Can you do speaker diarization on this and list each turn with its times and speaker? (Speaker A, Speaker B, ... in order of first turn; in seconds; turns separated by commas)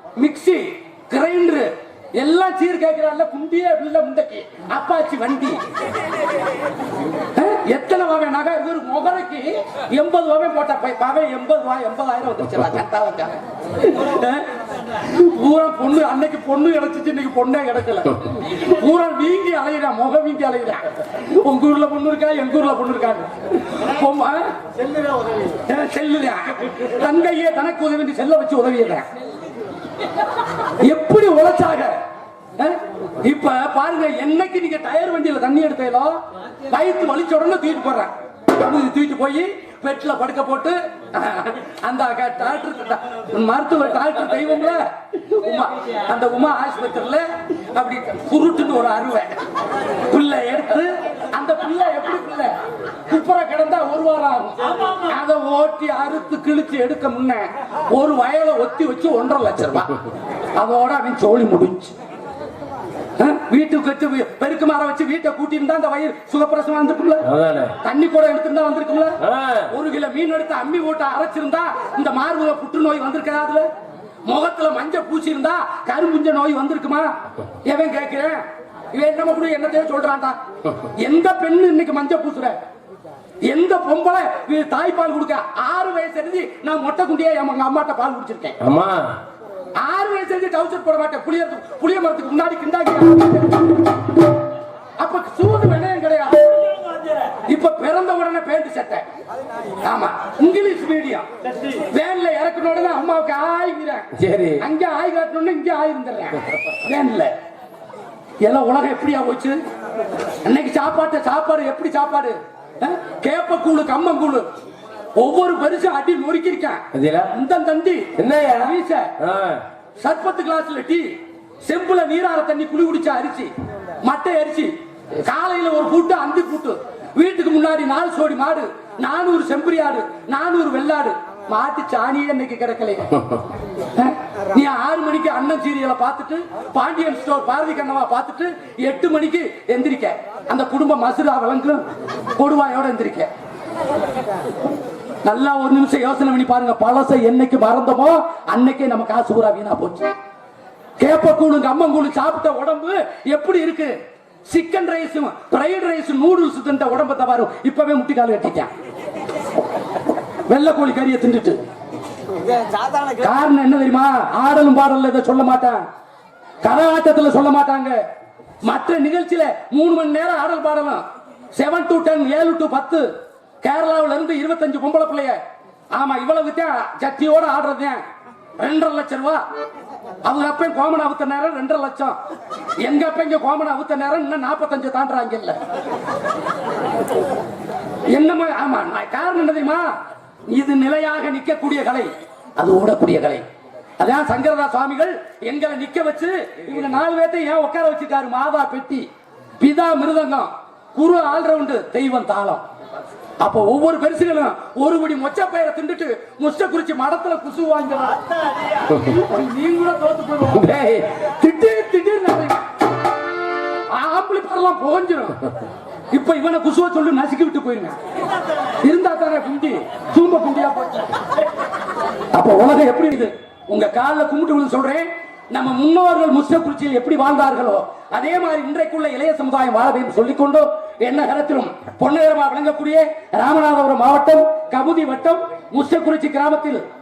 Speaker A: 0.2-5.6, Speaker A: 7.3-24.5, Speaker A: 25.5-29.1, Speaker A: 30.6-31.9, Speaker A: 32.6-36.2, Speaker A: 36.7-49.3, Speaker A: 50.1-52.5, Speaker A: 53.1-60.0, Speaker A: 60.5-61.9, Speaker A: 63.2-67.3, Speaker B: 67.2-67.8, Speaker A: 67.8-69.2, Speaker B: 69.2-69.7, Speaker A: 69.7-73.7, Speaker A: 74.3-77.1, Speaker A: 77.7-78.4, Speaker A: 78.9-80.4, Speaker A: 81.0-82.6, Speaker A: 83.5-88.6, Speaker B: 88.6-89.2, Speaker A: 89.8-93.8, Speaker A: 95.0-96.7, Speaker A: 97.5-99.0, Speaker A: 99.8-104.1, Speaker B: 104.2-104.6, Speaker A: 104.6-107.3, Speaker A: 108.5-109.6, Speaker A: 110.5-114.5, Speaker A: 115.2-119.1, Speaker B: 116.9-117.3, Speaker B: 118.2-119.6, Speaker A: 120.0-121.1, Speaker A: 121.7-123.5, Speaker A: 124.0-133.2, Speaker A: 133.9-141.8, Speaker A: 142.4-143.3, Speaker A: 145.2-150.1, Speaker A: 151.0-153.9, Speaker A: 154.5-158.7, Speaker A: 160.5-161.6, Speaker A: 163.2-165.8, Speaker A: 166.6-168.0, Speaker A: 168.6-171.0, Speaker A: 171.6-173.1, Speaker A: 173.6-175.4, Speaker A: 175.9-178.0, Speaker A: 178.6-179.4, Speaker A: 180.2-182.2, Speaker A: 182.8-185.6, Speaker A: 188.1-189.9, Speaker A: 190.5-193.4, Speaker A: 194.0-199.1, Speaker A: 199.6-202.6, Speaker A: 203.4-208.4, Speaker A: 208.9-212.7, Speaker B: 210.5-211.1, Speaker A: 213.9-215.4, Speaker A: 216.1-218.0, Speaker A: 218.8-221.1, Speaker A: 222.3-236.8